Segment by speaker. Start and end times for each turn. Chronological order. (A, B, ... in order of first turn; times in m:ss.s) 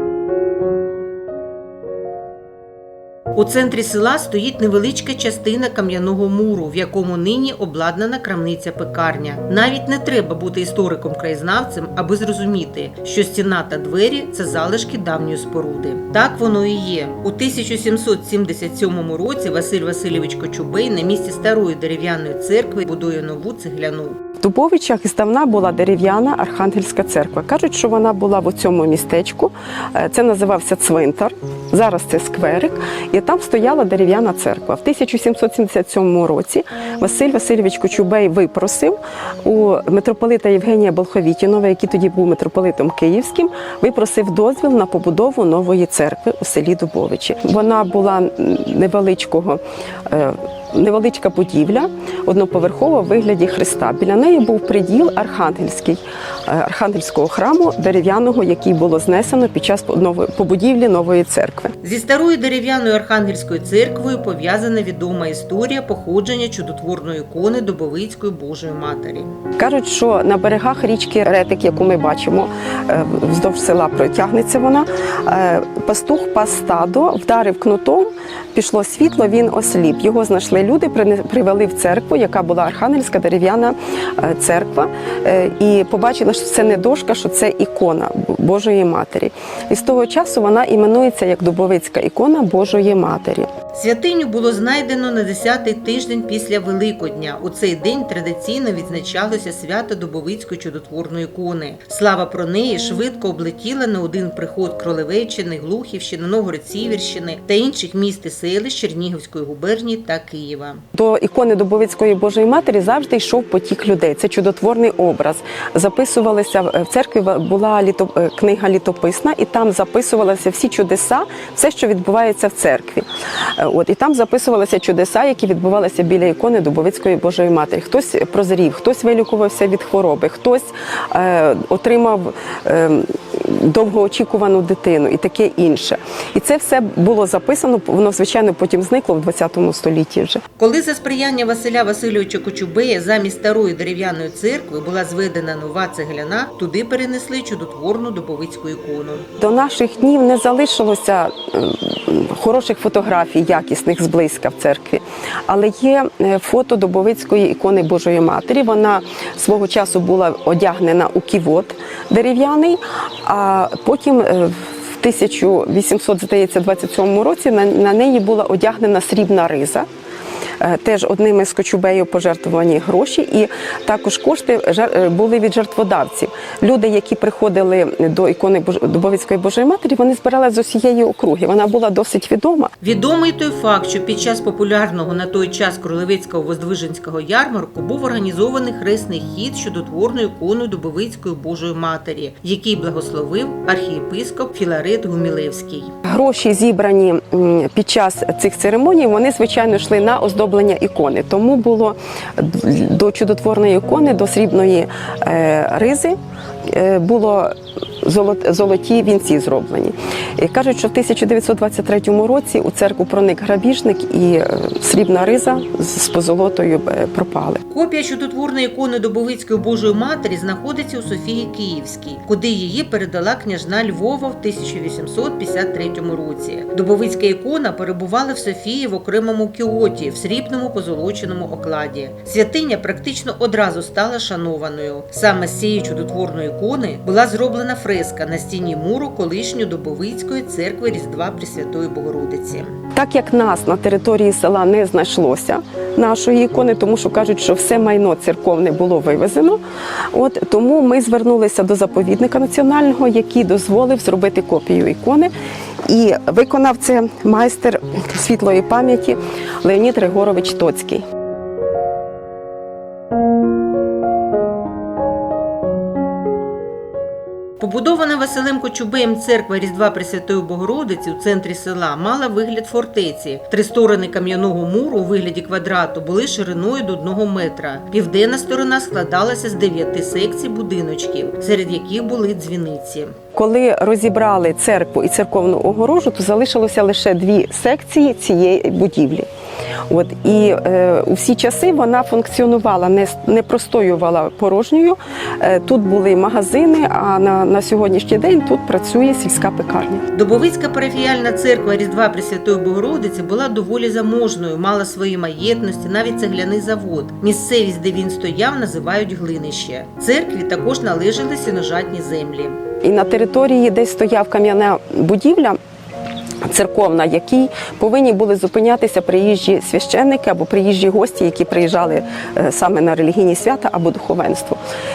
0:03.3-0:24.2 A
0:24.4-1:01.7 B
1:01.8-1:09.3 A
1:09.6-1:33.5 B
1:33.7-1:50.8 A
1:50.9-2:20.4 B
2:20.6-2:29.2 A
2:29.4-2:49.9 B
2:50.6-3:02.7 B
3:02.8-3:15.9 A
3:16.1-3:37.6 B
3:37.7-4:02.8 A
4:02.9-4:09.6 B
4:10.1-4:15.3 B
4:15.9-4:21.0 B
4:27.6-4:43.1 A
4:43.3-4:49.3 B
4:49.9-5:00.0 B
5:00.1-5:12.6 A
5:12.8-5:15.6 B
5:16.4-5:24.6 B